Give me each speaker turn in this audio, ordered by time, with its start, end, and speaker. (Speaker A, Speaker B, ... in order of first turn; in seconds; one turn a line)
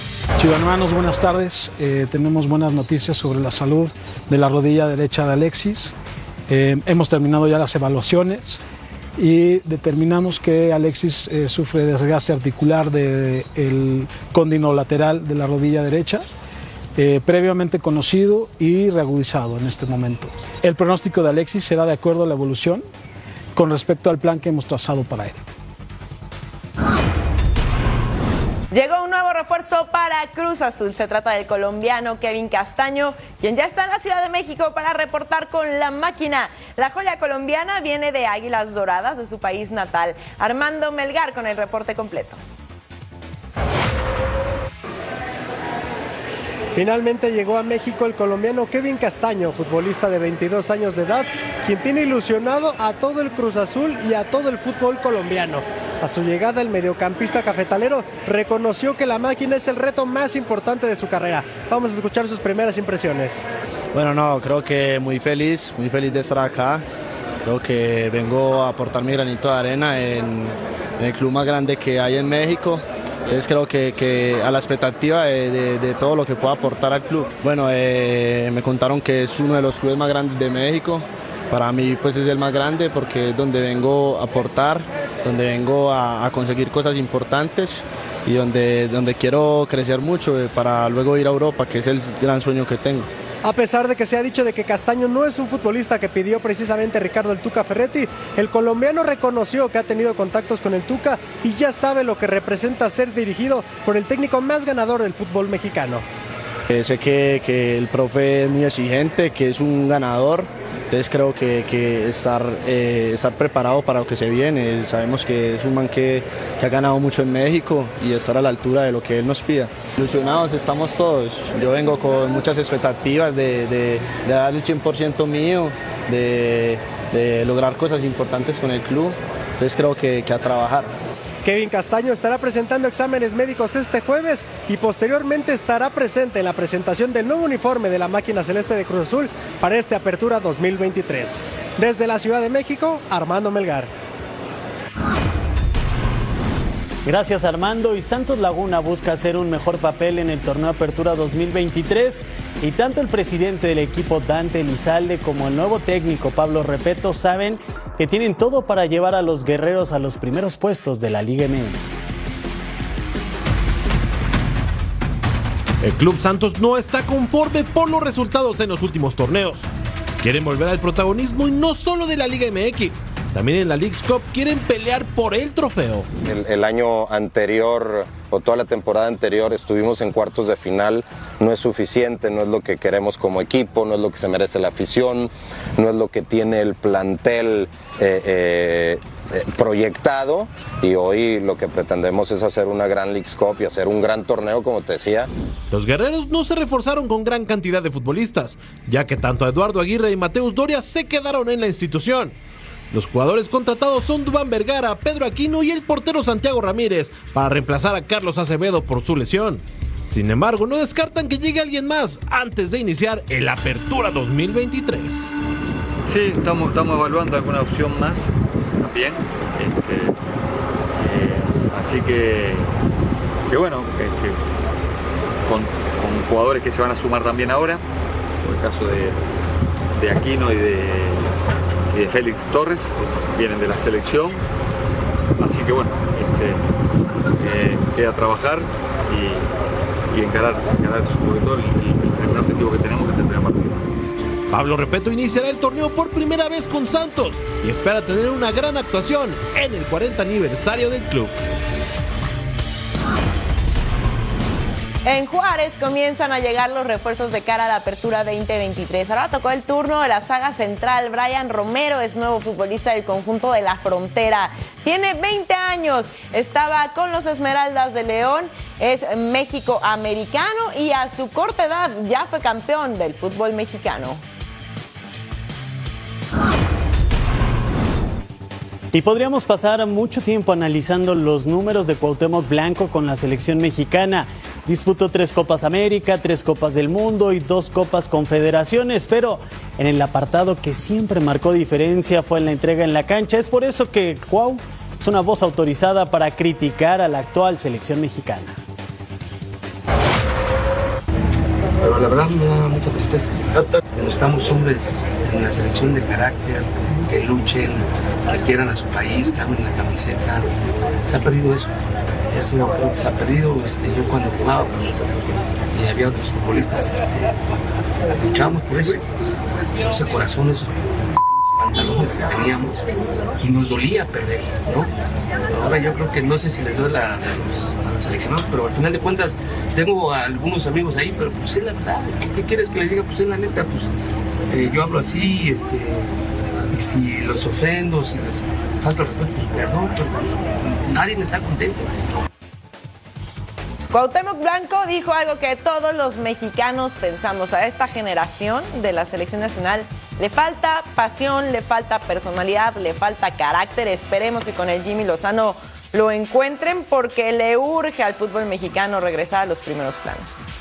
Speaker A: 0.4-5.9
Speaker A: 6.5-8.6
Speaker A: 9.2-16.2
Speaker A: 16.9-22.8
Speaker A: 23.5-25.4
Speaker B: 28.7-42.4
Speaker C: 46.7-63.4
Speaker D: 63.9-66.8
Speaker D: 67.4-93.1
Speaker C: 93.4-106.0
Speaker D: 106.7-130.9
Speaker C: 131.4-143.9
Speaker E: 147.0-162.1
Speaker F: 165.8-169.7
Speaker F: 170.2-176.1
Speaker G: 176.2-195.3
Speaker F: 195.7-202.3
Speaker F: 202.9-215.3
Speaker H: 216.0-220.1
Speaker H: 220.9-222.7
Speaker H: 223.5-224.4
Speaker H: 225.4-227.8
Speaker H: 228.4-229.2
Speaker H: 230.0-234.4
Speaker H: 235.4-236.6
Speaker H: 237.4-239.5
Speaker H: 240.1-243.8
Speaker F: 244.5-251.3
Speaker B: 255.0-274.2
Speaker E: 278.9-298.6
Speaker I: 301.8-310.5
Speaker I: 311.0-311.7
Speaker I: 312.3-314.9
Speaker I: 315.7-317.4
Speaker I: 318.0-319.0
Speaker I: 319.8-320.8
Speaker I: 321.5-322.9
Speaker I: 323.4-324.9
Speaker I: 325.5-333.9
Speaker I: 334.5-336.1
Speaker I: 336.7-341.9
Speaker B: 343.9-360.4